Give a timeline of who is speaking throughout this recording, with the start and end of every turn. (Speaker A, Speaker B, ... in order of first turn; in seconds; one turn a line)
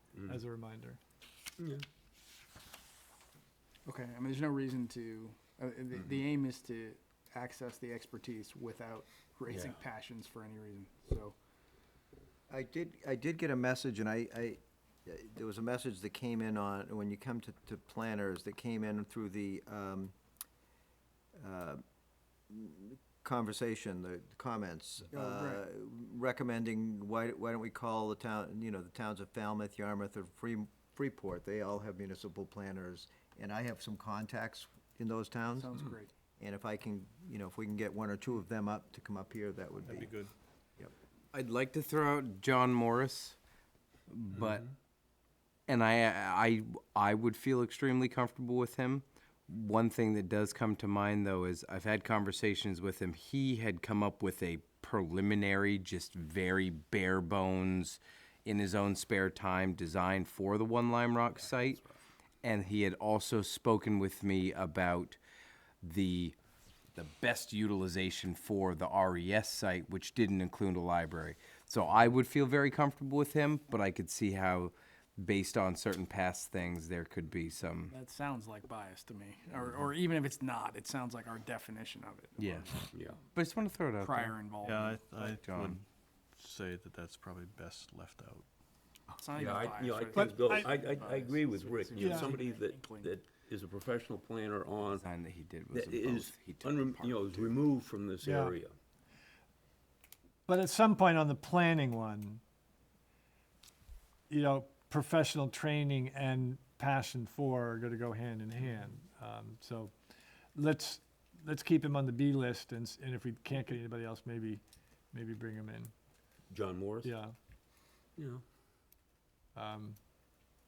Speaker A: 0.2-1.0
Speaker B: 1.6-1.8
Speaker C: 3.9-11.4
Speaker B: 9.5-9.8
Speaker D: 12.5-20.1
Speaker D: 21.4-21.8
Speaker D: 22.5-35.8
Speaker C: 25.1-25.6
Speaker C: 35.6-36.1
Speaker D: 36.4-40.1
Speaker E: 39.9-40.3
Speaker F: 41.3-43.4
Speaker F: 44.1-44.7
Speaker F: 45.7-61.8
Speaker B: 61.3-62.0
Speaker F: 62.4-65.2
Speaker F: 65.8-66.3
Speaker F: 67.0-77.9
Speaker C: 77.9-82.9
Speaker F: 82.4-82.8
Speaker F: 83.3-84.3
Speaker C: 84.0-85.3
Speaker E: 84.6-85.8
Speaker F: 85.3-85.8
Speaker E: 86.4-88.5
Speaker C: 89.2-93.1
Speaker B: 89.4-95.0
Speaker A: 90.2-90.7
Speaker A: 92.0-92.3
Speaker F: 94.8-97.5
Speaker B: 95.7-98.7
Speaker A: 98.2-98.5
Speaker A: 100.5-102.4
Speaker A: 104.3-109.9
Speaker A: 110.5-114.6
Speaker A: 115.1-115.9
Speaker B: 116.5-117.1
Speaker A: 117.0-117.3
Speaker B: 118.2-118.4
Speaker A: 119.6-120.0